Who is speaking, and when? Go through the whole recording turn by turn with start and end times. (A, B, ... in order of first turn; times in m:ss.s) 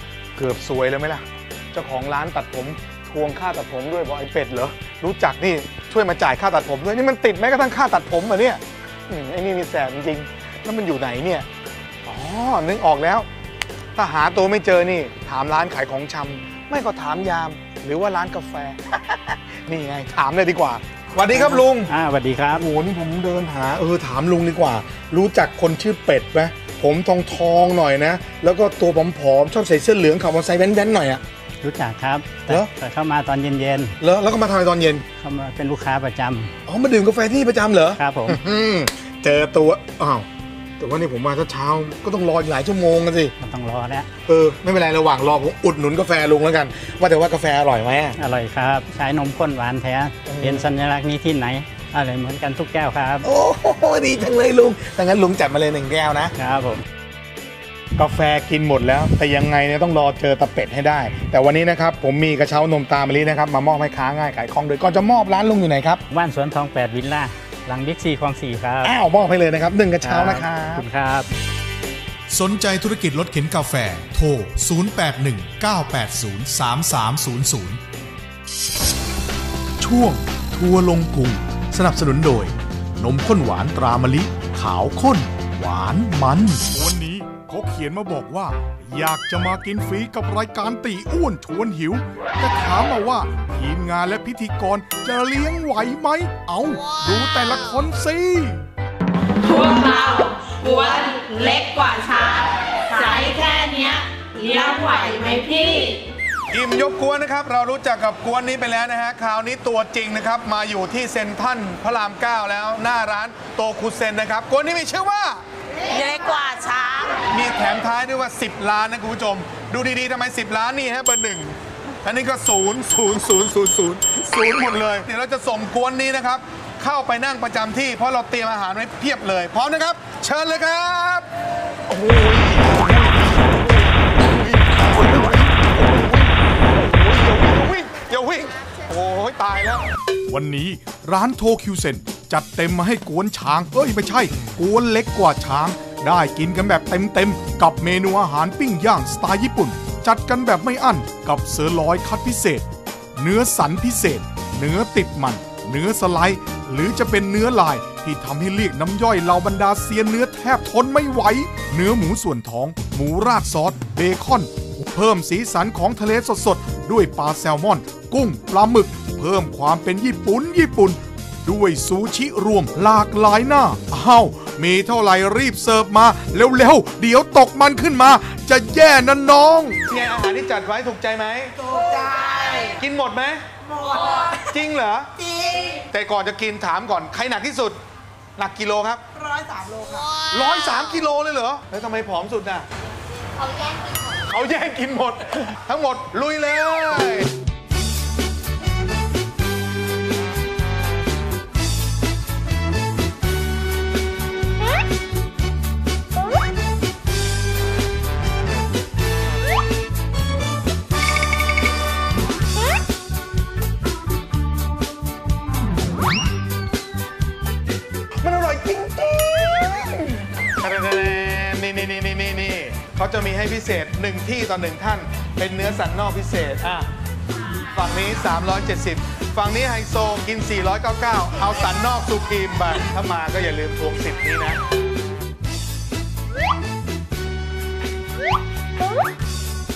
0:00.4-0:11.5 A
0:12.0-0:13.3 A
0:14.0-0:21.9 A
0:21.3-0:22.7 B
0:22.5-0:31.2 A
0:31.6-0:33.9 B
0:34.0-0:35.0 A
0:35.2-0:36.5 B
0:36.7-0:40.2 A
0:38.0-0:38.4 B
0:40.8-0:43.3 A
0:43.4-0:44.1 B
0:44.3-0:48.2 A
0:48.2-0:53.3 B
0:50.3-0:50.7 A
0:53.2-0:56.3 A
0:56.4-0:56.8 B
0:58.0-1:06.0 A
1:06.1-1:08.9 B
1:08.8-1:10.8 A
1:10.0-1:11.3 B
1:12.3-1:17.8 C
1:19.8-1:38.6 C
1:39.4-1:46.0 D
1:46.5-1:55.4 A
1:55.9-1:57.1 D
1:57.2-2:11.3 A
2:11.9-2:19.8 A
2:20.3-2:59.8 C
2:59.9-3:07.8 A
3:08.4-3:12.7 A
3:14.3-3:17.3 A
3:38.2-3:46.9 A
3:47.7-3:54.6 A